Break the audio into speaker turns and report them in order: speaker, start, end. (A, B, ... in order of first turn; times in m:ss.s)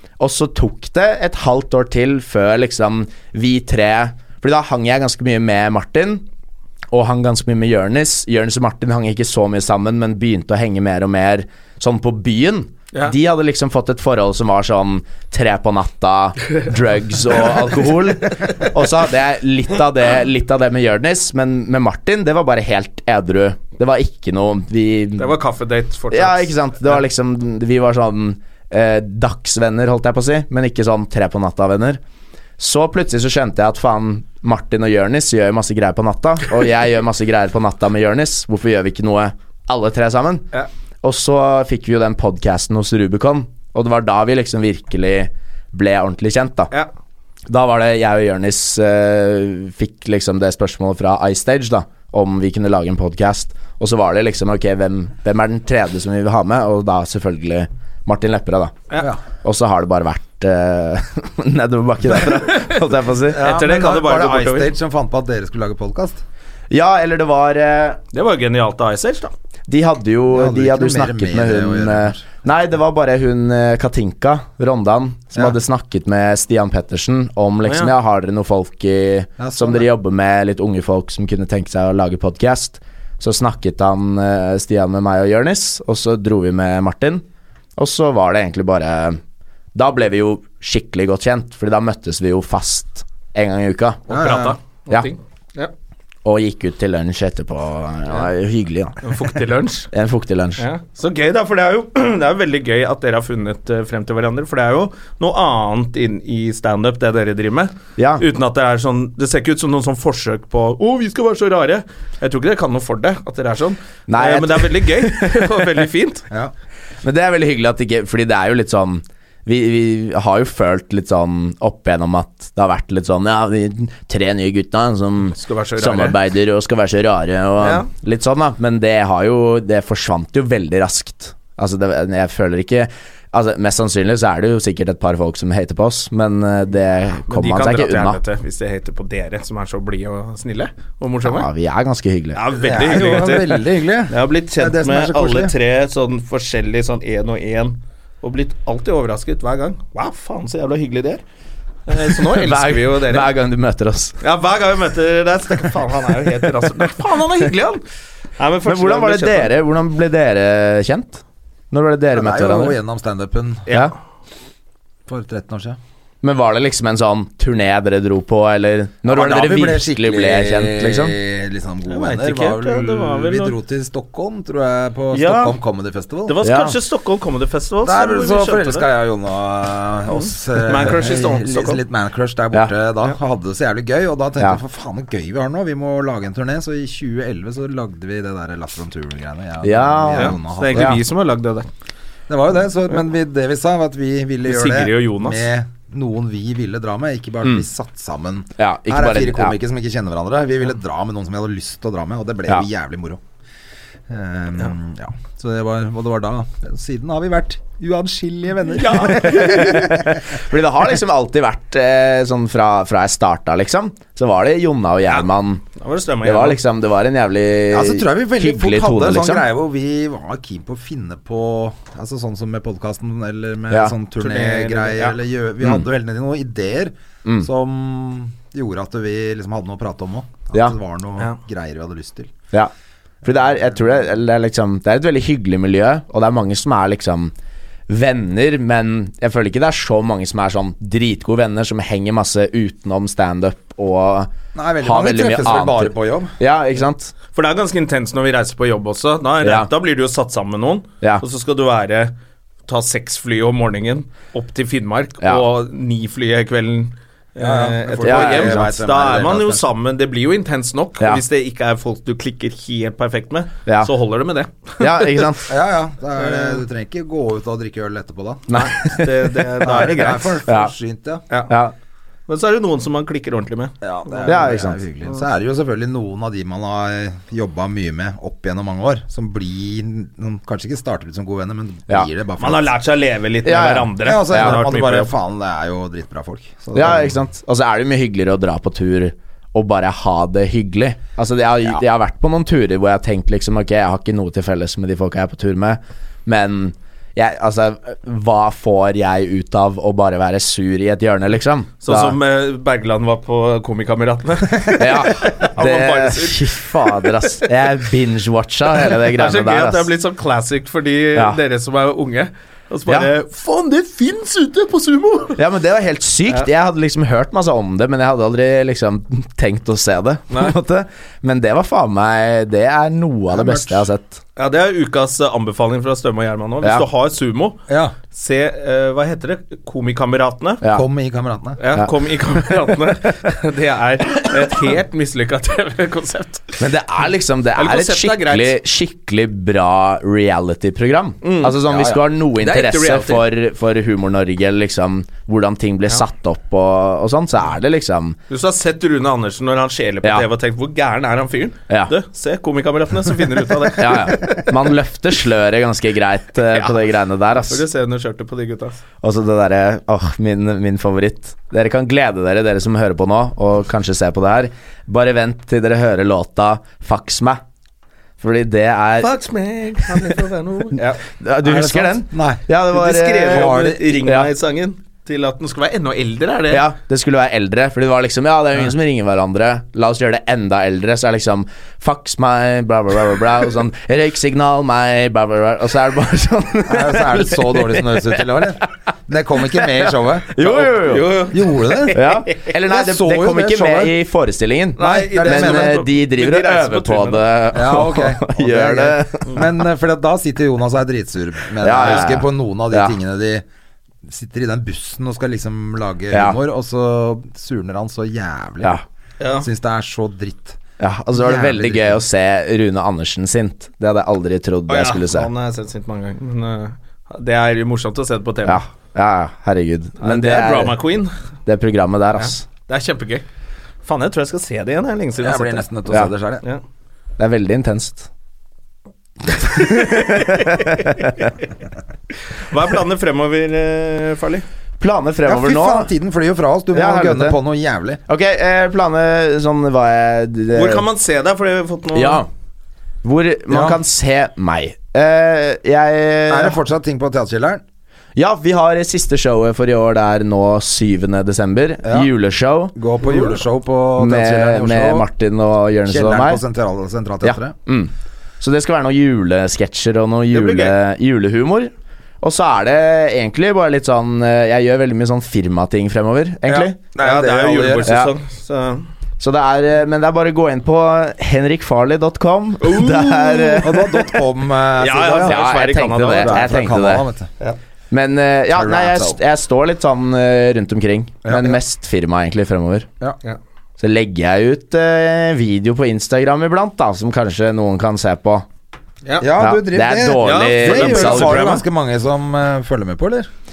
0:00.2-0:06.2 A
0:06.9-0:25.4 A
0:25.2-0:27.0 B
0:26.1-0:32.0 A
0:32.6-0:40.5 A
0:41.0-0:46.7 A
0:47.5-0:58.7 A
0:59.4-1:03.4 A
1:02.5-1:02.8 B
1:03.3-1:06.2 C
1:03.4-1:04.7 B
1:06.7-1:08.0 A
1:08.1-1:09.3 B
1:09.7-1:27.2 A
1:10.3-1:12.3 C
1:17.6-1:17.9 B
1:19.4-1:19.9 C
1:27.8-1:29.2 A
1:29.7-1:34.1 A
1:34.1-1:35.7 B
1:34.1-1:34.6 C
1:36.2-1:39.2 A
1:39.0-1:39.9 B
1:39.9-1:40.6 A
1:40.6-1:56.2 B
1:48.0-1:48.2 A
1:54.1-1:55.5 A
1:57.0-2:18.2 A
2:05.3-2:06.2 B
2:07.6-2:07.9 B
2:17.3-2:21.5 B
2:21.2-2:22.4 A
2:22.3-2:31.2 B
2:22.5-2:25.5 C
2:31.9-2:33.3 B
2:32.1-2:34.1 A
2:34.2-2:37.8 B
2:38.4-2:39.5 B
2:38.6-2:42.8 A
2:42.1-2:43.7 C
2:43.7-2:43.9 B
2:43.7-2:43.9 A
2:45.0-2:45.8 C
2:46.2-2:51.1 A
2:49.0-2:56.4 C
2:51.9-2:53.5 B
2:55.1-2:55.6 B
2:56.2-2:58.9 B
2:56.4-2:56.8 A
2:57.8-3:10.9 C
3:00.1-3:01.8 B
3:09.6-3:11.0 A
3:10.1-3:11.7 B
3:12.3-3:23.2 C
3:14.4-3:15.4 B
3:18.6-3:19.6 A
3:24.1-3:30.2 C
3:28.7-3:29.9 B
3:29.5-3:35.6 A
3:35.0-3:36.6 B
3:36.2-3:39.4 A
3:37.7-3:52.3 C
3:43.7-3:43.9 A
3:44.2-3:45.2 B
3:53.2-3:57.3 A
3:57.9-4:04.3 A
4:04.5-4:06.3 C
4:04.8-4:07.1 A
4:07.3-4:12.1 B
4:09.4-4:09.7 A
4:12.7-4:25.3 B
4:15.2-4:15.4 A
4:17.4-4:19.7 C
4:18.0-4:18.7 A
4:23.6-4:23.9 A
4:24.8-4:25.5 A
4:25.5-4:28.5 C
4:26.2-4:26.6 B
4:28.5-4:29.1 A
4:28.5-4:30.4 B
4:29.6-4:31.2 C
4:30.4-4:30.7 A
4:31.3-4:31.6 B
4:31.5-4:31.7 A
4:32.3-4:34.5 B
4:33.8-4:42.7 C
4:34.3-4:34.8 A
4:42.4-4:45.1 B
4:43.4-4:44.6 A
4:44.0-4:47.2 C
4:46.7-5:02.2 A
5:01.8-5:07.2 B
5:04.8-5:09.9 A
5:09.1-5:15.4 B
5:15.4-5:24.2 A
5:23.3-5:23.9 C
5:24.4-5:27.6 B
5:27.7-5:27.9 C
5:28.1-5:30.6 B
5:30.6-5:31.6 C
5:31.6-5:36.6 B
5:36.6-5:48.2 A
5:37.6-5:38.6 B
5:41.2-5:43.2 B
5:48.3-5:54.5 B
5:51.7-5:51.9 A
5:53.8-5:57.6 A
5:56.5-5:56.8 B
5:57.3-5:58.8 B
5:59.0-6:07.4 A
6:08.2-6:09.1 A
6:09.0-6:11.0 B
6:10.7-6:14.3 A
6:11.4-6:12.5 C
6:12.7-6:16.6 B
6:13.3-6:14.0 C
6:16.5-6:28.2 A
6:26.7-6:30.4 C
6:29.6-6:31.2 A
6:30.4-6:32.3 B
6:31.3-6:33.9 C
6:31.9-6:39.5 A
6:34.8-6:37.3 B
6:34.8-6:35.9 C
6:37.5-6:43.4 C
6:41.6-6:43.0 A
6:41.8-6:42.0 B
6:44.0-6:48.8 C
6:46.1-6:46.4 A
6:49.2-6:49.5 B
6:49.4-6:50.6 C
6:50.8-6:55.3 A
6:51.1-6:52.0 C
6:54.7-6:58.6 B
6:58.4-7:00.8 A
7:00.0-7:01.1 B
7:01.4-7:02.4 A
7:02.2-7:03.2 B
7:03.8-7:05.6 B
7:05.2-7:06.4 C
7:07.2-7:08.1 A
7:09.4-7:10.3 B
7:09.4-7:11.3 A
7:12.4-7:14.4 B
7:14.8-7:15.9 A
7:15.2-7:18.0 C
7:16.7-7:17.4 A
7:18.1-7:20.8 A
7:20.5-7:22.2 B
7:21.9-7:22.3 A
7:23.0-7:26.6 A
7:23.5-7:23.8 C
7:26.3-7:27.6 C
7:28.2-7:32.7 A
7:31.8-7:32.1 C
7:32.7-7:35.1 C
7:34.0-7:36.4 A
7:35.8-7:37.6 C
7:37.2-7:46.8 A
7:40.3-7:40.7 B
7:46.4-7:47.9 C
7:47.0-7:48.9 B
7:47.8-7:48.1 A
7:49.2-7:54.0 A
7:52.6-7:54.2 B
7:53.6-7:55.4 C
7:54.7-7:56.6 B
7:55.2-7:57.1 A
7:56.1-7:57.3 C
7:57.9-8:02.9 A
7:58.5-7:59.2 C
8:01.2-8:01.6 C
8:03.8-8:08.4 A
8:09.0-8:09.3 B
8:09.2-8:13.3 C
8:09.4-8:11.6 A
8:10.1-8:11.6 B